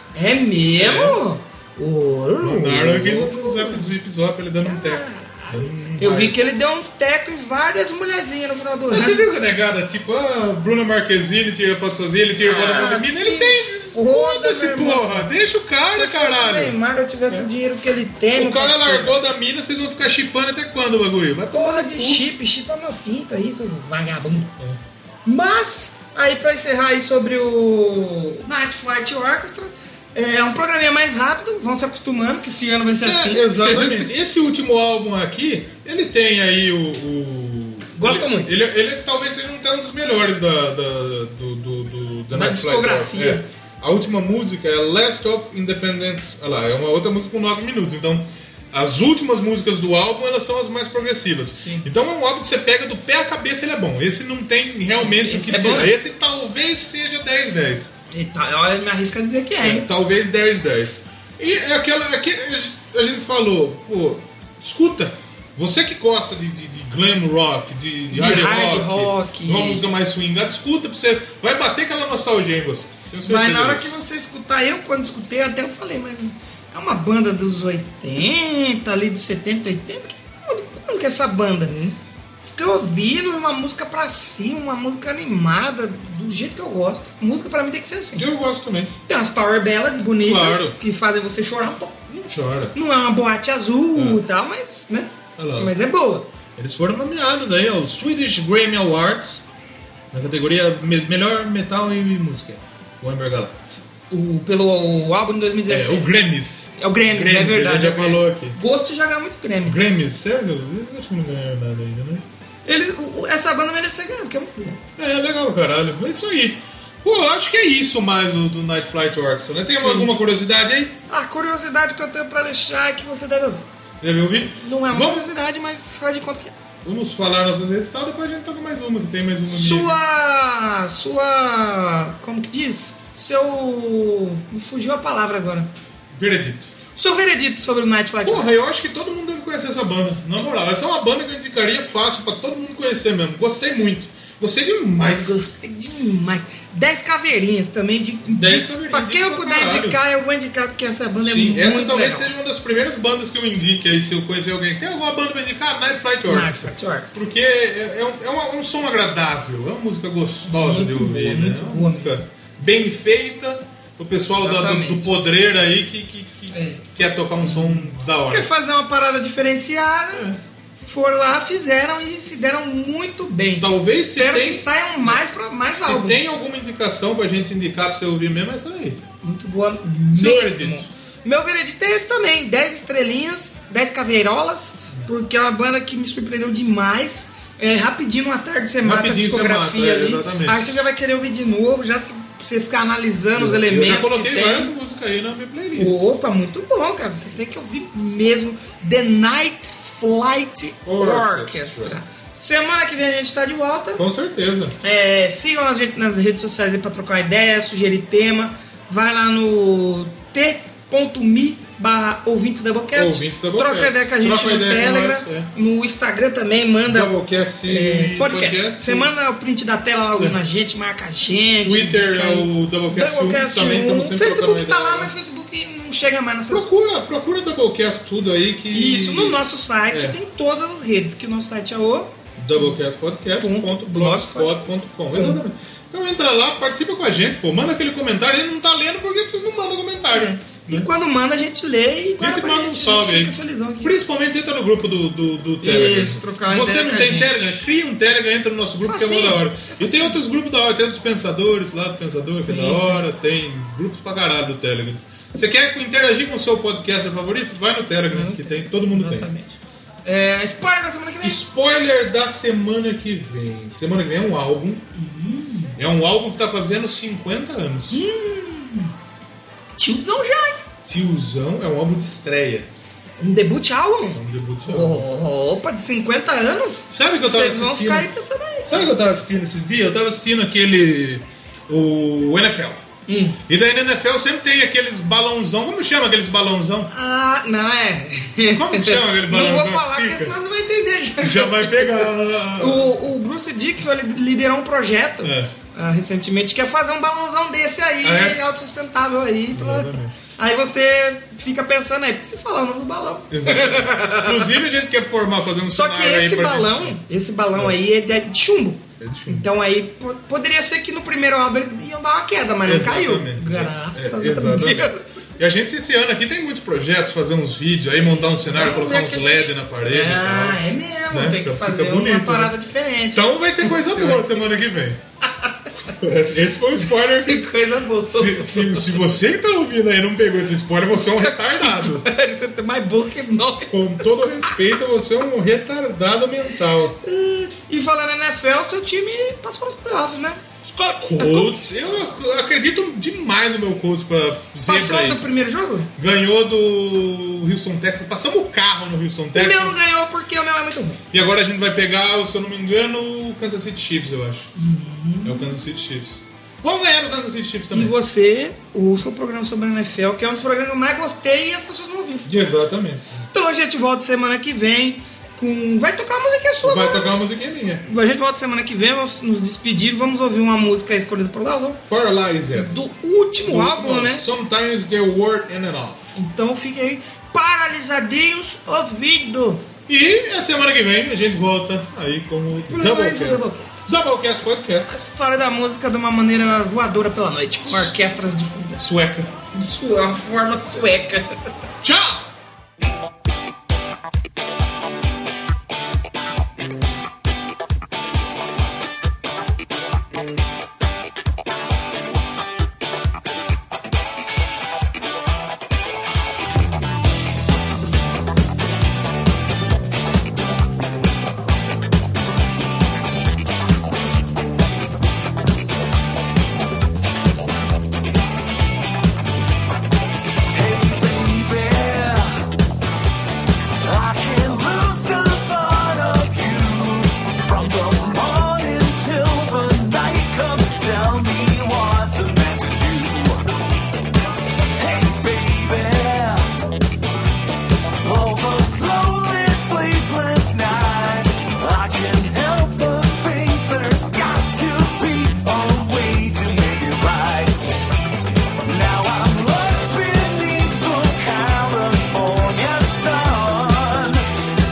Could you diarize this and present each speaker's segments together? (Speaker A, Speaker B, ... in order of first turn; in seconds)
Speaker A: 0.1-3.9, 4.6-9.2, 12.4-15.3, 15.9-19.2, 21.5-24.6, 25.2-34.1, 37.9-38.5, 42.3-43.4, 51.6-51.9, 55.0-55.9, 58.1-59.9, 68.1-69.8, 73.2-81.8, 82.4-88.3, 89.0-96.3, 104.1-106.1, 106.8-110.1, 112.6-114.8, 119.8-120.1, 121.1-123.6, 124.5-126.5, 129.5-135.7, 136.9-138.5, 145.0-152.3, 156.3-157.1, 160.4-162.2, 164.4-165.1, 166.5-166.8, 167.4-176.4, 179.2-194.7, 195.7-204.0, 204.8-217.1, 217.7-226.7, 228.7-232.8, 233.4-235.4, 240.7-243.9, 245.6-247.6, 248.8-250.2, 252.4-253.1, 258.1-261.4, 264.9-265.8, 267.9-268.9, 269.8-270.6, 273.2-278.9, 283.1-283.4, 286.9-304.5, 305.7-315.2, 318.4-324.2, 325.4-325.9, 327.0-329.0, 331.2-334.5, 337.0-341.6, 344.6-345.9, 349.3-351.0, 354.6-355.5, 357.7-362.3, 363.3-367.1, 367.9-371.8, 372.5-374.2, 376.1-379.6, 382.7-383.9, 384.9-388.8, 389.5-391.4
Speaker B: 0.8-1.2, 2.4-6.3, 8.9-16.8, 18.3-22.2, 33.0-57.9, 59.6-73.9, 81.7-82.0, 88.2-88.9, 90.2-90.8, 92.3-92.7, 94.0-94.2, 95.4-95.7, 96.5-99.4, 100.1-103.8, 105.7-108.6, 109.6-112.2, 115.0-120.9, 124.0-125.3, 126.8-130.0, 136.1-136.7, 138.2-145.4, 148.2-150.0, 151.2-168.5, 170.1-170.4, 173.6-179.0, 180.1-180.9, 188.8-190.6, 193.3-196.1, 200.8-202.0, 204.0-204.7, 212.9-215.5, 216.9-219.1, 221.6-225.1, 226.5-230.2, 232.4-240.9, 242.2-259.3, 261.2-264.8, 265.8-268.0, 270.8-272.7, 274.1-275.1, 276.9-278.1, 278.6-282.8, 283.4-286.9, 288.3-290.3, 291.2-292.9, 295.2-295.5, 298.0-298.4, 299.5-300.2, 303.3-307.0, 309.0-309.5, 312.6-322.5, 323.1-325.0, 325.9-327.4, 328.1-332.1, 333.7-337.0, 341.0-345.2, 346.0-349.8, 351.1-354.5, 355.2-357.9, 362.2-363.2, 366.6-367.8, 371.9-372.8, 373.4-376.1, 379.9-385.0, 387.7-387.9, 388.8-389.3, 391.8-392.3
Speaker C: 420.5-422.5, 423.8-433.5, 434.7-436.6, 438.0-447.6, 448.6-454.3